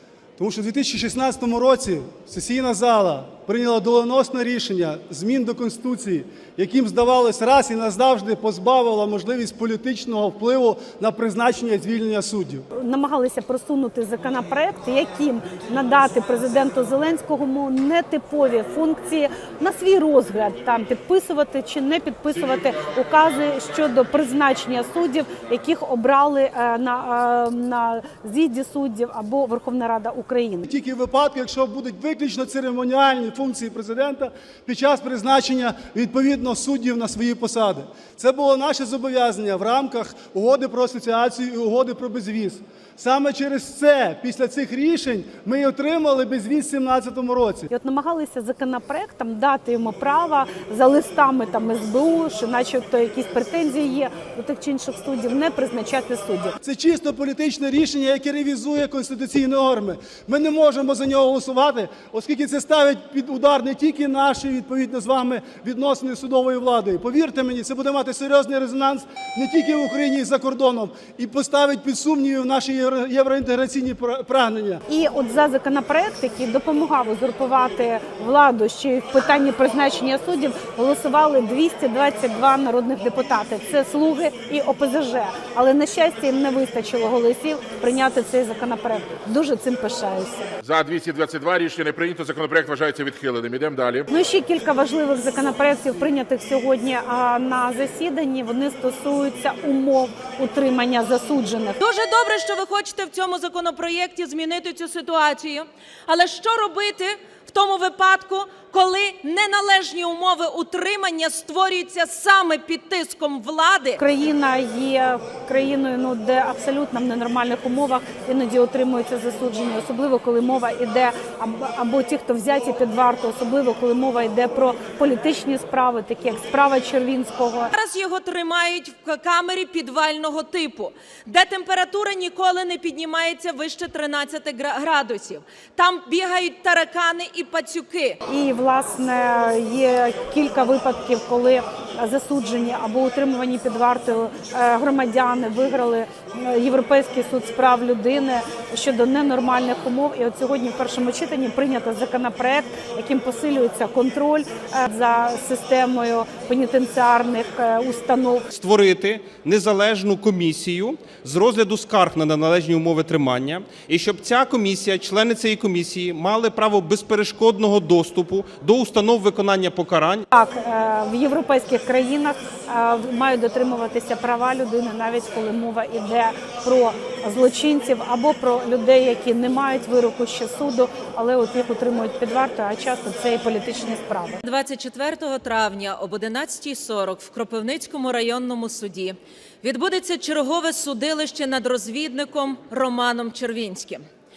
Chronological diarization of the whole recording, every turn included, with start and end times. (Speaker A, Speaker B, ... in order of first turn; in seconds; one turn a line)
Speaker A: 0.4-12.7
Speaker B: 12.8-30.7
Speaker A: 30.6-47.7
Speaker B: 47.7-56.5
Speaker A: 56.6-74.8
Speaker B: 74.9-90.5
Speaker C: 90.6-94.1
Speaker B: 94.1-101.8
Speaker D: 101.8-114.0
Speaker B: 114.0-127.7
Speaker D: 127.7-138.2
Speaker B: 138.3-158.4
Speaker E: 158.5-170.2
Speaker B: 170.3-184.4
Speaker D: 184.4-194.0